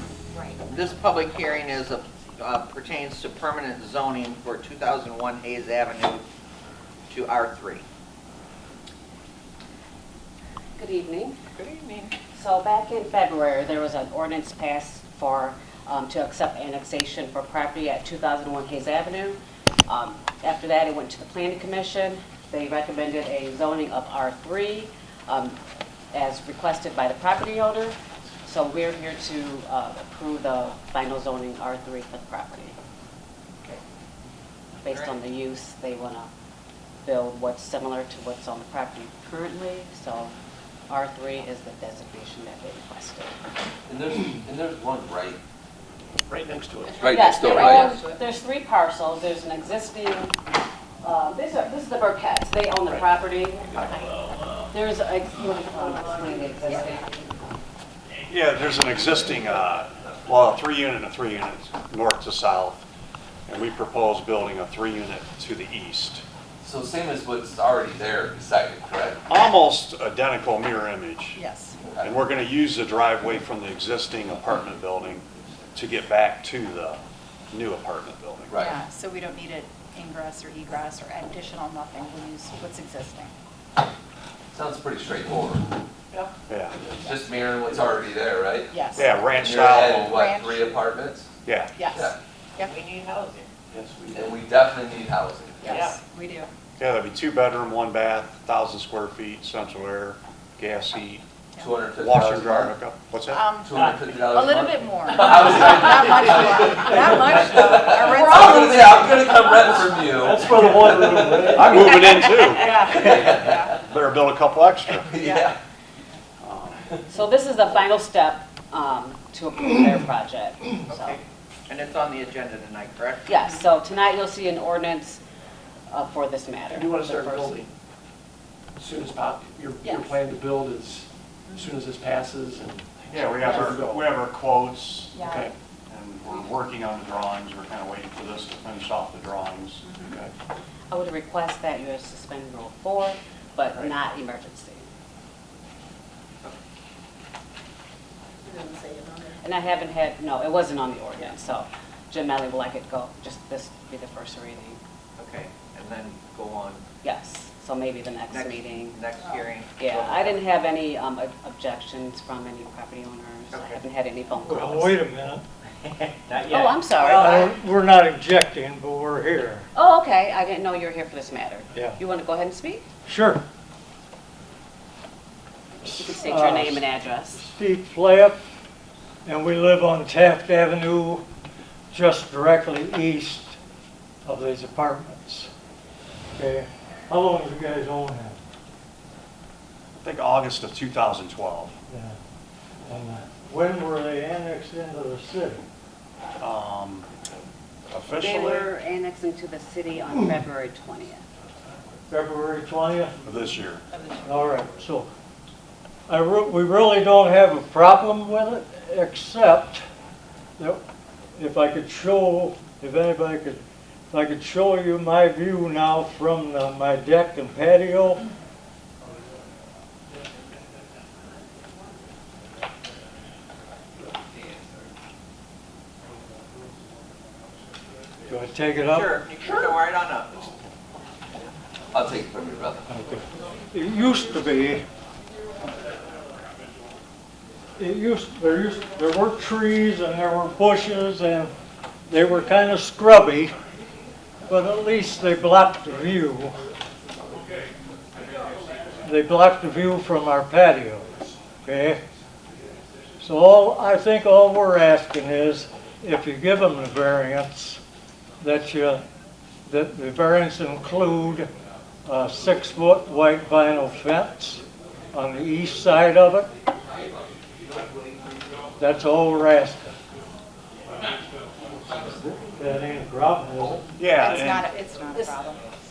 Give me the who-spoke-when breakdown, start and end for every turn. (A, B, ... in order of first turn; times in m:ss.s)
0:00.7-0:06.2 A
0:07.1-0:07.8 A
0:10.8-0:11.3 B
0:11.6-0:12.1 A
0:12.3-0:25.6 B
0:26.1-0:32.8 B
0:34.8-0:36.3 B
0:34.8-0:35.2 A
0:37.0-0:40.3 B
0:40.9-0:43.3 B
0:43.9-0:45.4 C
0:46.3-0:47.5 D
0:46.8-0:47.8 E
0:47.0-0:48.0 C
0:47.0-0:50.3 B
0:51.0-0:54.1 B
0:54.7-0:57.3 B
0:58.3-1:02.8 F
1:03.5-1:06.2 F
1:06.6-1:09.2 C
1:09.3-1:11.4 F
1:11.3-1:11.8 E
1:11.8-1:12.1 C
1:12.0-1:18.6 F
1:18.5-1:18.8 C
1:18.5-1:23.3 E
1:24.5-1:25.6 C
1:26.5-1:26.8 F
1:27.0-1:31.3 C
1:28.7-1:29.2 E
1:29.0-1:30.2 F
1:30.0-1:30.7 E
1:31.4-1:31.7 F
1:31.8-1:32.8 E
1:31.9-1:32.2 C
1:32.6-1:33.4 A
1:33.7-1:34.3 D
1:34.1-1:35.8 C
1:35.6-1:36.5 E
1:36.8-1:41.2 F
1:41.6-1:42.8 C
1:42.0-1:43.4 F
1:43.3-1:50.1 E
1:43.6-1:53.7 C
1:50.2-1:51.7 G
1:51.4-1:55.1 F
1:51.7-1:53.7 E
1:55.0-1:55.6 C
1:56.4-1:56.8 F
1:57.1-2:01.2 B
2:00.9-2:03.4 A
2:03.3-2:05.2 B
2:05.9-2:07.6 B
2:06.7-2:07.7 D
2:08.8-2:14.1 D
2:09.8-2:10.2 E
2:11.5-2:11.7 E
2:13.1-2:15.2 F
2:13.4-2:13.7 E
2:15.1-2:15.5 E
2:15.2-2:15.5 D
2:15.9-2:20.0 F
2:19.8-2:20.2 E
2:20.9-2:24.8 B
2:28.5-2:29.4 E
2:29.4-2:34.8 B
2:35.2-2:36.8 A
2:37.0-2:39.0 B
2:38.3-2:40.5 A
2:39.8-2:45.0 B
2:43.5-2:43.8 A
2:44.4-2:45.4 G
2:46.4-2:47.5 B
2:47.0-2:49.7 G
2:49.7-2:52.8 B
2:53.0-2:53.4 G
2:55.8-2:57.4 B
2:55.8-2:58.4 G
2:59.2-3:01.2 G
3:01.9-3:03.6 G
3:04.2-3:05.5 G
3:06.3-3:08.4 G
3:10.0-3:11.7 F
3:11.9-3:12.2 G
3:12.9-3:15.6 G
3:16.4-3:17.1 F
3:17.9-3:18.7 F
3:18.2-3:21.2 B
3:22.1-3:23.2 G
3:23.2-3:23.8 F
3:24.0-3:24.4 E
3:24.2-3:25.1 G
3:26.1-3:29.8 G
3:31.4-3:38.2 G
3:48.3-3:49.1 G
3:48.9-3:50.4 A
3:51.9-3:52.8 C
3:52.9-3:54.8 G
3:57.8-4:01.5 G
4:02.1-4:03.5 G
4:04.5-4:06.5 G
4:09.0-4:11.1 G
4:11.6-4:12.0 G
4:13.2-4:17.8 G
4:18.4-4:19.0 G
4:19.6-4:21.5 G
4:22.0-4:26.5 G
4:28.8-4:29.9 G
4:31.9-4:33.9 G
4:34.0-4:34.7 F
4:34.1-4:35.6 E